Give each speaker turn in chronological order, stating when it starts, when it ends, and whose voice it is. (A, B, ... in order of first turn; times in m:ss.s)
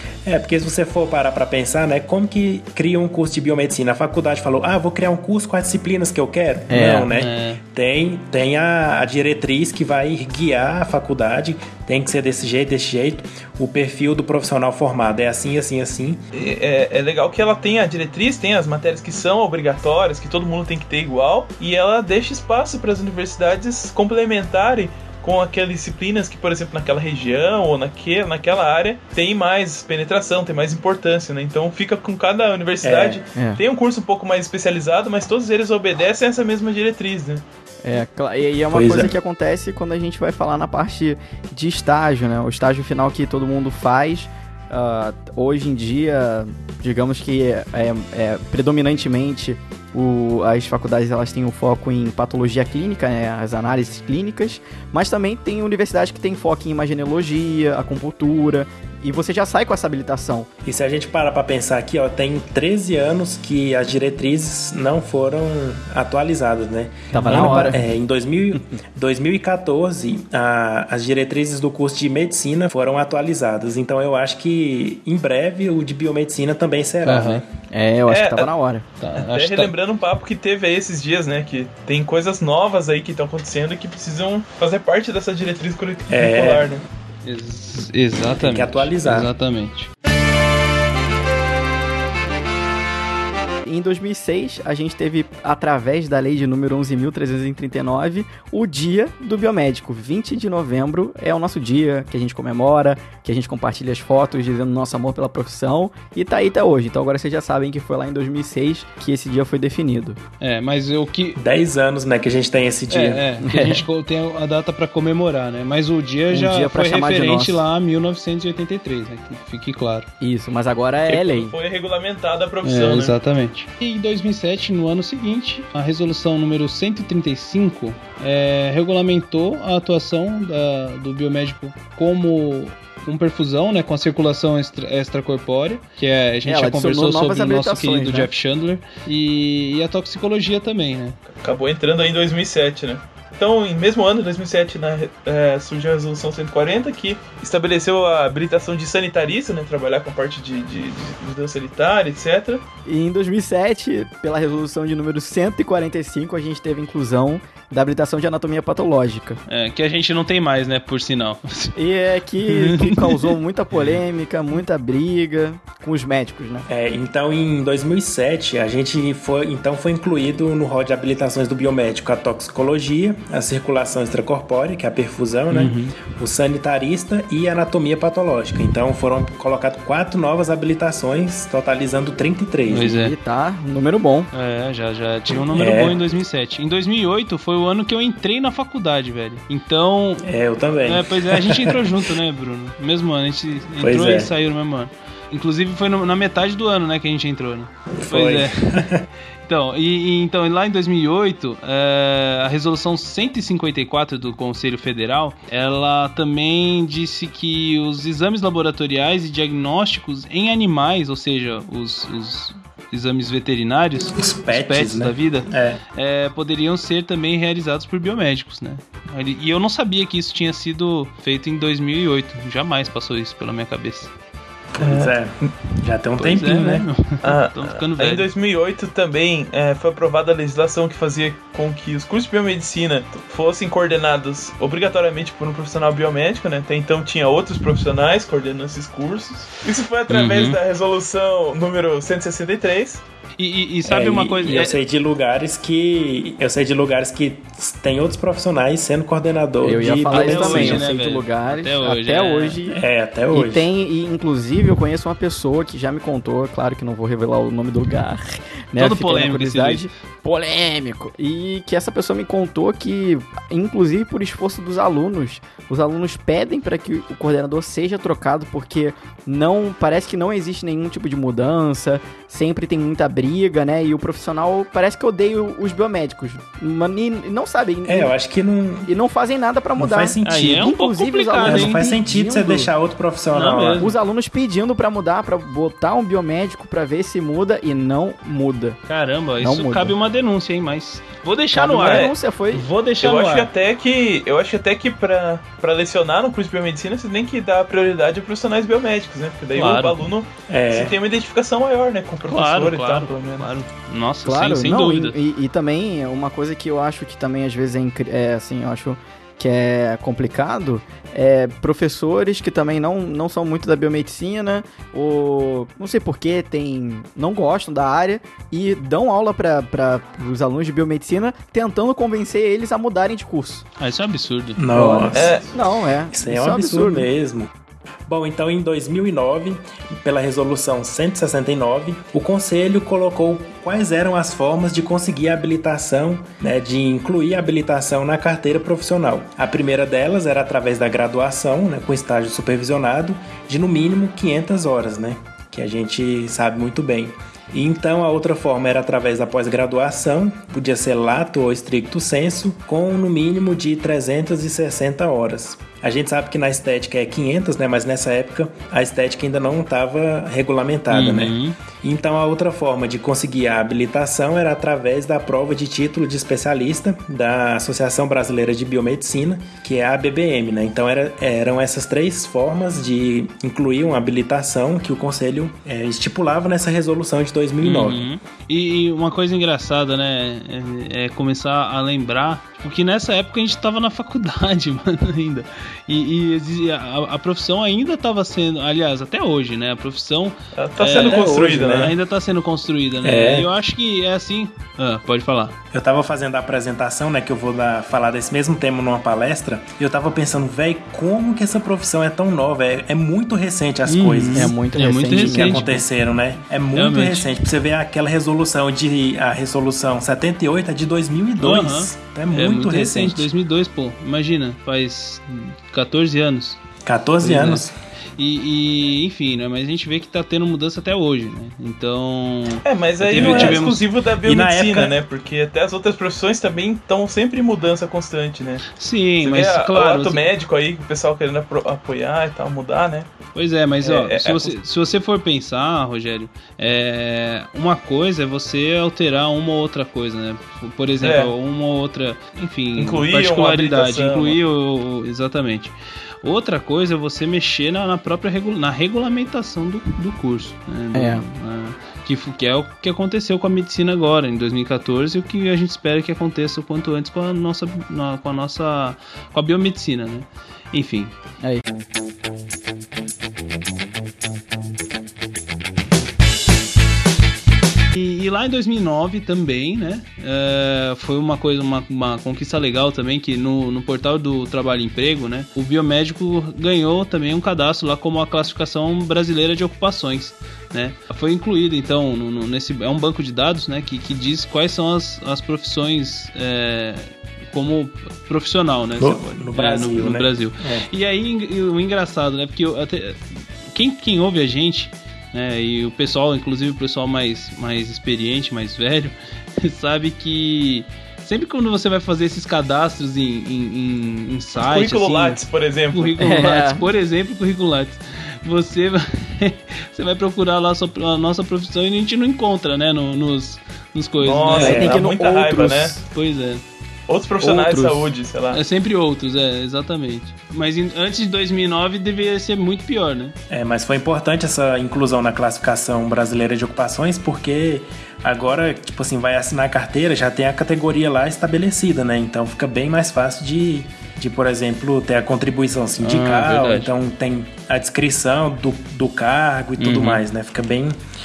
0:00.2-0:16.2 A
0:06.7-0:07.1 B
0:07.1-0:07.6 C
0:16.3-0:37.4 D
0:32.8-0:33.2 A
0:33.3-0:33.6 B
0:37.8-1:00.5 B
0:38.7-0:39.1 A
1:00.6-1:17.4 A
1:07.1-1:07.8 B
1:07.2-1:07.7 C
1:17.0-1:17.4 C
1:17.7-1:18.8 B
1:18.1-1:18.5 D
1:19.0-1:19.7 C
1:19.2-1:26.8 D
1:26.1-1:26.7 A
1:27.2-1:29.9 C
1:28.3-1:29.3 A
1:33.6-1:50.2 B
1:50.4-1:51.4 C
1:51.4-1:53.2 A
1:52.9-2:00.1 C
1:53.4-1:53.8 B
1:56.3-1:57.6 B
2:00.2-2:01.5 B
2:01.0-2:03.1 D
2:02.6-2:21.2 C
2:16.4-2:18.3 B
2:21.3-2:32.6 D
2:32.8-2:39.4 B
2:39.5-2:41.7 C
2:41.8-2:46.7 B
2:42.5-2:43.3 C
2:46.7-3:02.9 A
2:55.5-2:55.9 C
3:02.7-3:03.1 C
3:02.8-3:04.3 B
3:04.3-3:10.3 C
3:05.5-3:06.0 A
3:10.2-3:12.0 A
3:10.8-3:18.9 C
3:13.8-3:14.3 A
3:18.0-3:19.0 A
3:19.4-3:44.1 C
3:34.1-3:35.8 A
3:44.7-3:46.8 A
3:44.8-3:45.5 D
3:46.2-3:48.3 C
3:47.2-4:03.0 D
4:00.1-4:00.6 C
4:03.4-4:04.8 C
4:03.8-4:10.8 A
4:09.6-4:12.8 B
4:10.1-4:12.6 C
4:12.6-4:13.7 A
4:13.3-4:38.1 B
4:18.8-4:19.9 C
4:37.9-4:38.9 A
4:38.8-4:42.7 B
4:39.8-4:40.7 A
4:40.2-4:41.8 C
4:41.4-4:43.9 A
4:43.3-4:43.9 C
4:43.8-4:48.8 B
4:48.9-4:53.5 C
4:49.4-4:50.0 B
4:51.5-4:52.6 B
4:51.8-4:52.1 D
4:53.0-5:03.5 D
4:59.5-5:00.0 C
5:00.5-5:00.9 A
5:02.3-5:05.2 C
5:04.2-5:23.6 B
5:23.8-5:25.0 C
5:24.6-5:25.4 A
5:24.7-5:27.1 B
5:25.1-5:25.5 D
5:26.1-5:27.5 A
5:28.1-6:18.0 A
6:00.9-6:01.6 C
6:17.6-6:35.6 C
6:30.5-6:31.9 D
6:31.0-6:31.6 A
6:33.0-6:33.5 A
6:35.7-6:44.5 A
6:43.8-6:45.8 C
6:44.3-6:45.6 B
6:45.1-6:53.3 A
6:46.7-6:47.3 C
6:51.4-6:56.6 C
6:56.8-6:57.7 A
6:57.2-6:57.6 C
6:58.2-7:03.8 C
7:02.6-7:08.7 D
7:03.1-7:03.6 A
7:04.2-7:04.9 A
7:08.7-7:10.3 C
7:09.2-7:13.1 D
7:13.3-7:41.1 C
7:13.8-7:14.5 D
7:21.0-7:21.3 D
7:22.8-7:24.4 D
7:30.9-7:31.2 B
7:47.9-8:25.4 C
8:09.0-8:10.8 A
8:24.6-8:26.1 D
8:25.9-8:34.8 C
8:26.2-8:26.8 B
8:34.2-8:36.0 D
8:34.5-8:36.0 B
8:34.6-8:35.0 A
8:36.1-8:36.6 C
8:37.1-8:38.6 D
8:37.4-8:38.1 B
8:38.5-8:43.3 C
8:43.5-9:01.0 A
8:56.0-8:56.9 C
8:59.8-9:00.2 C